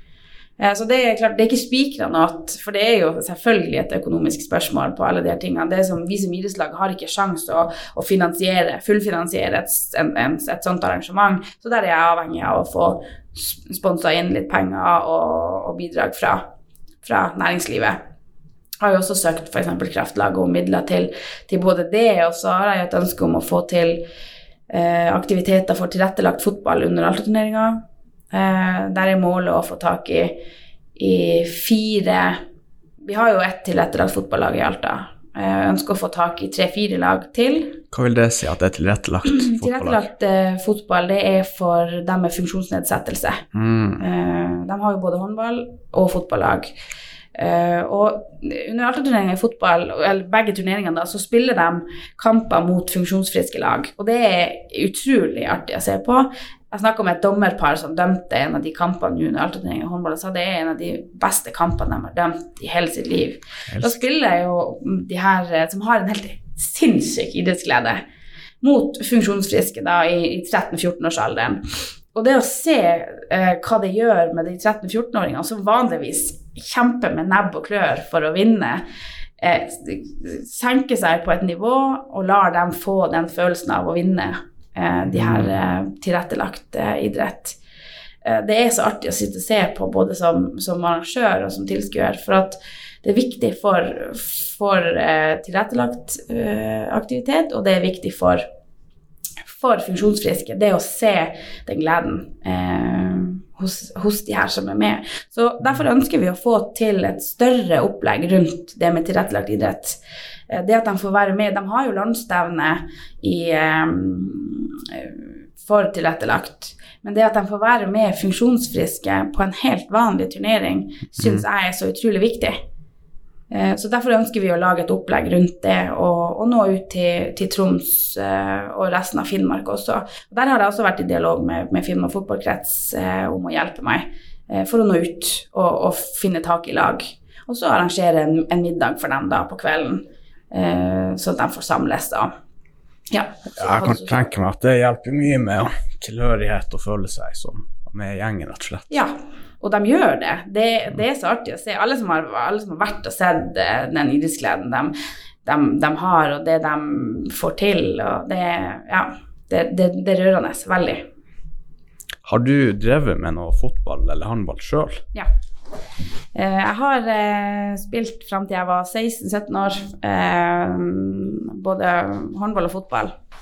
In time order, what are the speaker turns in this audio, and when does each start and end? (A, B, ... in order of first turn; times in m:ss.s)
0:00.6-0:16.4 A
0:17.0-0:18.0 A
0:18.8-0:24.0 A
0:24.7-0:30.4 A
0:31.0-0:32.4 A
0:33.0-0:37.8 A
0:37.9-0:40.0 B
0:39.2-0:43.4 A
0:43.5-0:44.0 B
0:44.0-0:46.7 A
0:47.4-1:08.0 A
1:08.6-1:11.6 A
1:12.1-1:18.8 A
1:19.4-1:27.6 A
1:25.1-1:25.5 B
1:28.2-1:38.4 A
1:39.5-2:02.6 A
2:03.5-2:22.3 A
2:23.1-2:24.3 A
2:23.6-2:29.0 B
2:28.9-2:34.9 A
2:35.4-2:41.0 A
2:42.2-2:45.0 B
2:46.4-2:53.1 A